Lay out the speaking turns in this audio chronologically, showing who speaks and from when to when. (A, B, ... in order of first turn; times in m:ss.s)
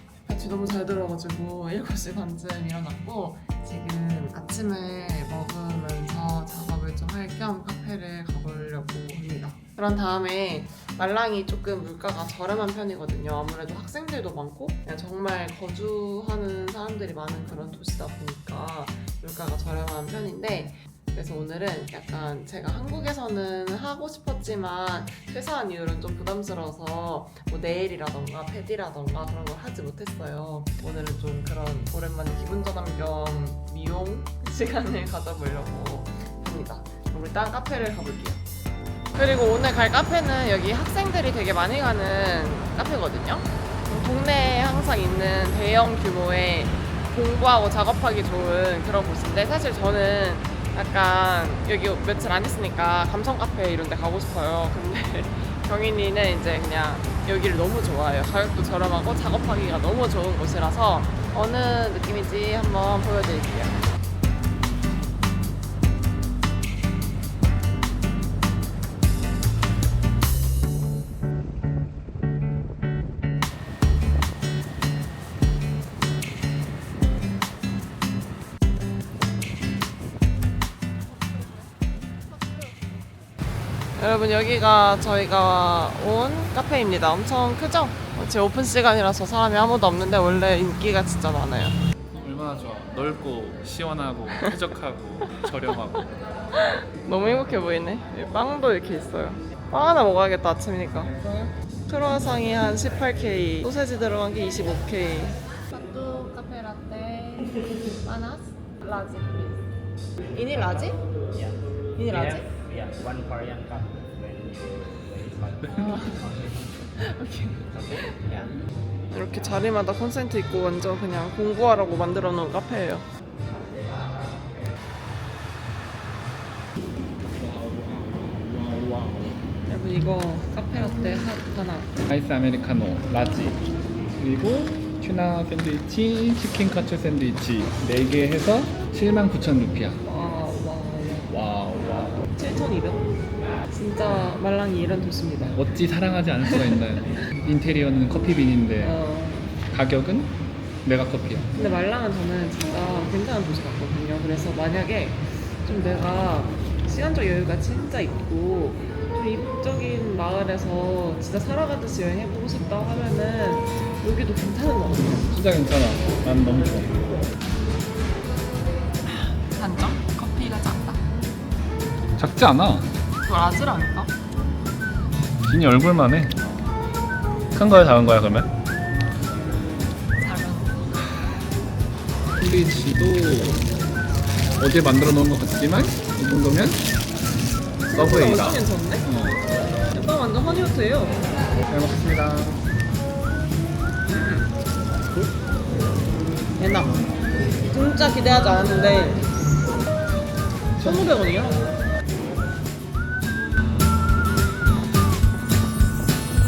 0:00.2-0:38.4 A
0:39.1-1:03.8 A
1:24.0-1:31.8 A
1:32.1-1:36.1 B
1:35.2-1:36.0 A
1:36.5-1:41.1 A
1:41.1-1:41.5 B
1:41.9-1:47.5 A
1:48.0-1:49.7 A
1:50.3-1:51.0 A
1:51.3-1:56.4 C
1:52.0-1:52.5 A
1:55.6-1:56.0 B
1:55.7-1:56.2 A
1:57.0-1:58.5 A
1:57.7-1:58.2 C
1:59.1-2:03.0 A
2:07.3-2:09.5 B
2:09.6-2:12.0 A
2:12.1-2:13.6 B
2:14.2-2:20.0 B
2:20.0-2:21.3 A
2:21.3-2:22.2 B
2:22.3-2:23.1 A
2:23.7-2:25.6 A
2:25.4-2:28.9 B
2:26.4-2:27.3 A
2:28.8-2:29.6 A
2:29.7-2:31.5 B
2:31.5-2:45.3 A
2:44.9-2:47.0 B
2:49.0-2:51.0 A
2:52.2-2:52.9 B
2:53.2-2:54.1 A
2:55.4-2:56.4 B
2:57.5-2:58.5 B
3:00.2-3:01.3 A
3:02.4-3:03.7 B
3:04.6-3:06.8 B
3:07.8-3:09.0 A
3:07.9-3:09.4 B
3:09.9-3:11.2 A
3:11.7-3:12.6 B
3:14.1-3:14.5 A
3:16.6-3:17.0 A
3:17.7-3:19.3 A
3:20.8-3:21.1 B
3:20.8-3:21.6 A